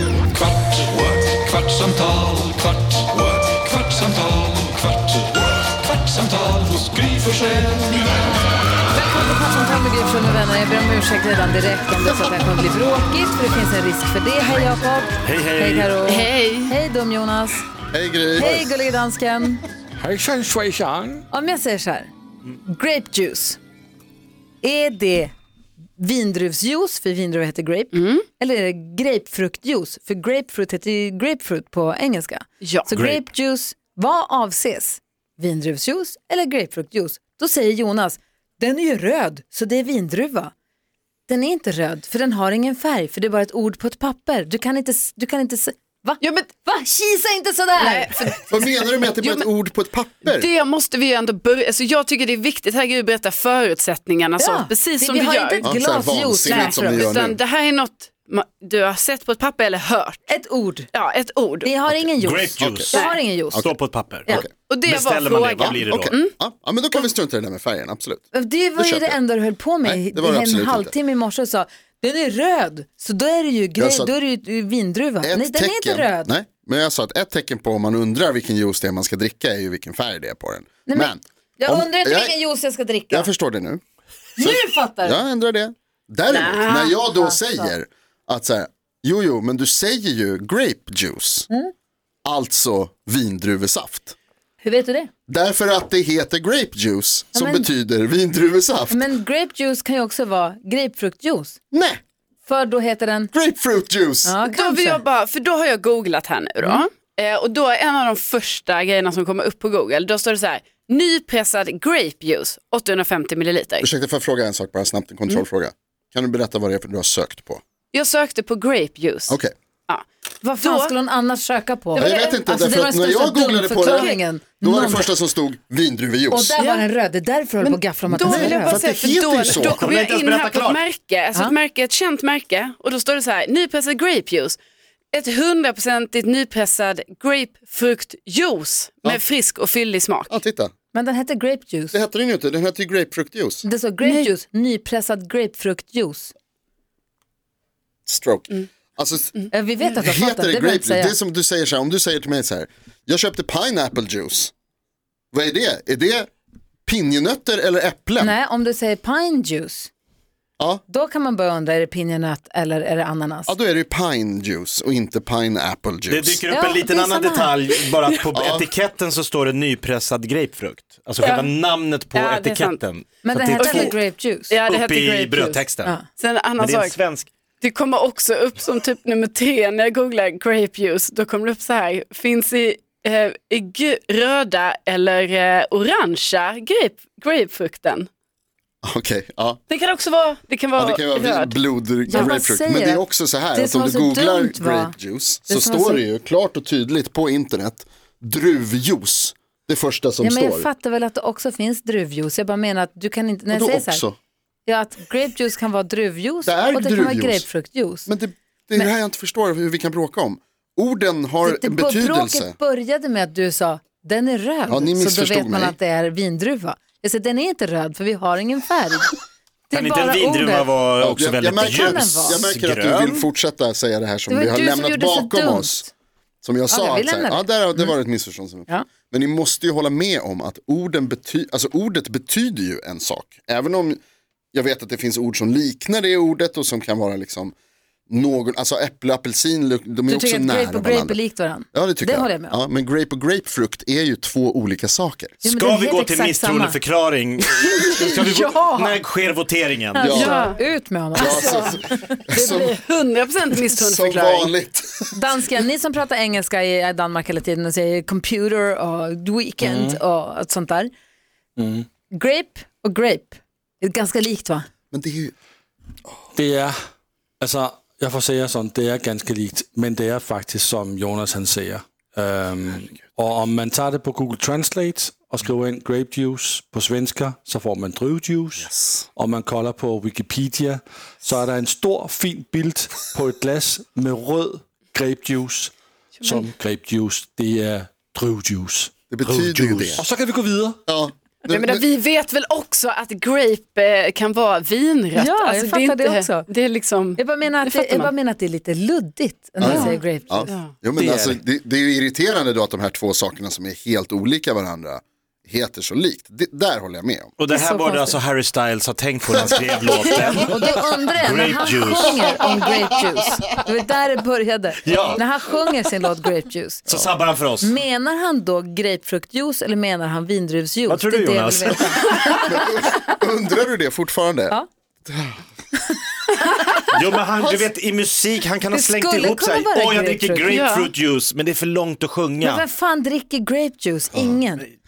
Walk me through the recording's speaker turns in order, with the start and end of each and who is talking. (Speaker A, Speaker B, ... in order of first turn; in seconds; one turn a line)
Speaker A: 0.7-4.7
Speaker A: 6.0-6.7
Speaker A: 7.3-7.6
Speaker B: 8.9-17.6
Speaker C: 15.2-15.9
Speaker D: 16.0-16.7
Speaker E: 17.9-18.7
Speaker B: 18.3-19.6
Speaker F: 20.0-21.2
Speaker B: 21.3-22.1
Speaker B: 22.6-23.6
Speaker B: 24.6-25.3
Speaker B: 26.0-40.5
Speaker D: 27.9-28.2
Speaker D: 32.6-32.9
Speaker C: 32.9-33.2
Speaker B: 41.3-48.3
Speaker D: 46.2-46.5
Speaker D: 47.7-49.5
Speaker E: 48.5-50.5
Speaker D: 50.2-55.7
Speaker B: 54.4-57.1
Speaker E: 55.6-57.4
Speaker D: 56.5-60.3
Speaker B: 60.3-60.9
Speaker D: 60.9-61.7
Speaker B: 61.6-63.7
Speaker E: 61.9-62.9
Speaker C: 62.2-66.1
Speaker D: 64.3-66.3
Speaker E: 65.6-69.2
Speaker B: 68.3-76.3
Speaker E: 69.8-70.9
Speaker E: 73.8-74.1
Speaker E: 75.2-82.4
Speaker B: 80.8-83.3
Speaker E: 83.1-83.8
Speaker B: 84.4-85.2
Speaker E: 84.4-91.5
Speaker D: 86.3-87.0
Speaker B: 87.1-87.7
Speaker E: 92.2-94.2
Speaker B: 94.6-95.1
Speaker E: 95.3-99.1
Speaker B: 97.3-97.7
Speaker B: 98.9-101.6
Speaker E: 101.7-102.0
Speaker B: 102.4-103.3
Speaker E: 103.3-104.3
Speaker B: 104.2-105.0
Speaker D: 104.5-113.9
Speaker E: 113.8-117.6
Speaker D: 117.9-119.4
Speaker B: 120.4-125.2
Speaker D: 120.6-120.9
Speaker D: 121.9-122.3
Speaker E: 122.0-126.5
Speaker D: 123.8-124.1
Speaker B: 126.3-128.8
Speaker D: 126.6-126.8
Speaker D: 127.6-134.6
Speaker E: 128.2-129.8
Speaker C: 129.4-130.8
Speaker D: 135.1-140.3
Speaker E: 140.3-140.7
Speaker B: 140.9-141.9
Speaker E: 141.9-143.6
Speaker B: 143.6-146.3
Speaker D: 144.0-144.3
Speaker E: 148.1-149.4
Speaker B: 149.5-151.1
Speaker E: 150.0-154.5
Speaker E: 155.3-156.3
Speaker E: 156.8-158.3
Speaker B: 158.2-159.9
Speaker B: 160.9-163.5
Speaker E: 163.5-166.4
Speaker C: 166.1-173.9
Speaker B: 166.5-167.6
Speaker E: 168.3-168.7
Speaker D: 171.2-171.5
Speaker D: 172.1-172.8
Speaker B: 173.2-174.5
Speaker D: 173.6-177.0
Speaker C: 174.6-175.9
Speaker C: 176.6-177.3
Speaker D: 177.6-188.1
Speaker E: 188.8-189.6
Speaker D: 189.7-192.3
Speaker E: 190.8-200.7
Speaker B: 192.1-194.9
Speaker B: 195.5-196.0
Speaker B: 200.2-204.1
Speaker E: 203.5-204.2
Speaker B: 204.7-208.1
Speaker E: 206.4-207.4
Speaker E: 208.1-212.6
Speaker B: 211.4-219.1
Speaker E: 214.7-215.8
Speaker B: 219.7-220.7
Speaker C: 219.7-223.2
Speaker E: 221.0-225.8
Speaker B: 221.6-222.5
Speaker B: 224.3-225.9
Speaker E: 226.4-234.0
Speaker B: 226.7-227.9
Speaker E: 234.5-237.5
Speaker E: 238.1-241.2
Speaker B: 240.1-242.6
Speaker E: 241.7-245.3
Speaker C: 245.4-250.2
Speaker B: 245.4-246.8
Speaker D: 247.9-248.9
Speaker B: 249.9-252.2
Speaker E: 250.0-250.4
Speaker D: 250.1-250.6
Speaker E: 251.1-252.8
Speaker D: 251.2-251.7
Speaker D: 252.3-254.5
Speaker E: 253.7-255.2
Speaker B: 255.1-260.9
Speaker F: 259.6-260.0
Speaker F: 261.6-261.9
Speaker B: 262.1-264.6
Speaker E: 264.9-265.3
Speaker F: 266.3-266.7
Speaker F: 267.4-288.9
Speaker E: 278.6-279.0
Speaker E: 289.1-290.0
Speaker C: 289.2-290.0
Speaker F: 289.9-290.8
Speaker E: 290.9-291.8
Speaker D: 291.5-298.1
Speaker B: 295.1-296.5
Speaker B: 297.2-300.5
Speaker E: 299.6-307.3
Speaker D: 299.6-299.9
Speaker F: 300.9-301.4
Speaker C: 307.4-312.2
Speaker B: 307.5-308.2
Speaker B: 310.0-317.1
Speaker C: 314.8-315.2
Speaker C: 316.9-317.8
Speaker B: 317.6-322.7
Speaker C: 320.9-322.2
Speaker E: 322.3-325.4
Speaker B: 325.9-326.8
Speaker C: 326.9-332.6
Speaker B: 328.7-330.6
Speaker D: 330.5-330.9
Speaker B: 332.4-334.7
Speaker E: 334.1-334.4